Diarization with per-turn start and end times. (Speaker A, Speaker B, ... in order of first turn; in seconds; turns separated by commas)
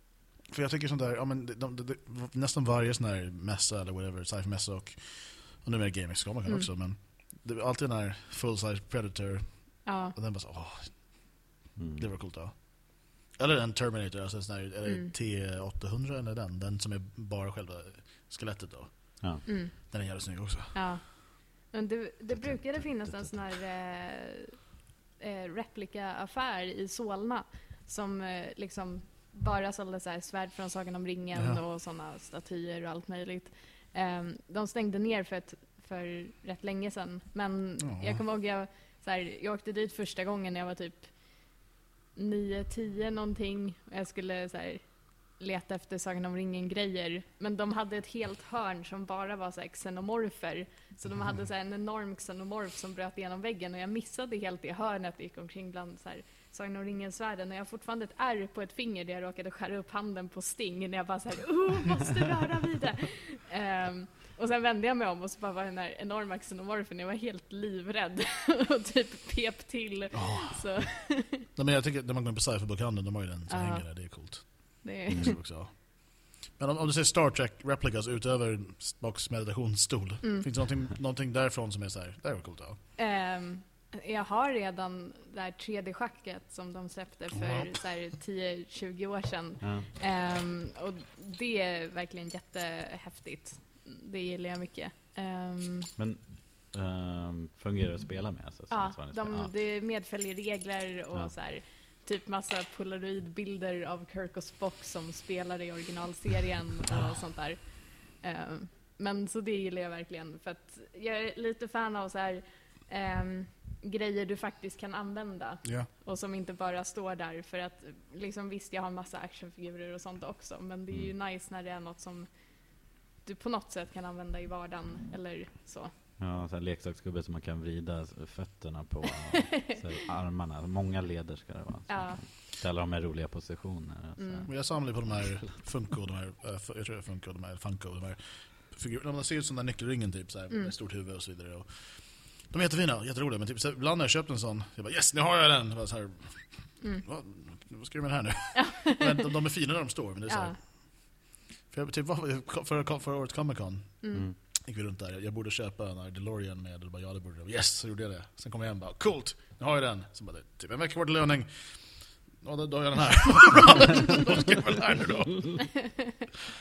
Speaker A: 0.5-20.9, Speaker B: 9.8-10.2, Speaker C: 11.8-12.1, Speaker B: 14.9-15.1, Speaker B: 19.5-20.2, Speaker B: 20.7-71.5, Speaker C: 22.6-23.4, Speaker A: 31.4-31.6, Speaker A: 37.8-38.2, Speaker A: 51.1-51.4, Speaker A: 70.1-82.8, Speaker B: 73.5-75.4, Speaker B: 80.2-80.5, Speaker B: 83.0-95.9, Speaker A: 87.3-87.7, Speaker C: 89.6-89.9, Speaker C: 96.0-99.6, Speaker B: 98.7-125.9, Speaker A: 115.6-115.9, Speaker C: 126.2-135.3, Speaker B: 131.9-132.2, Speaker B: 134.2-134.7, Speaker A: 134.5-166.0, Speaker B: 148.6-149.3, Speaker B: 150.3-150.6, Speaker B: 154.0-154.3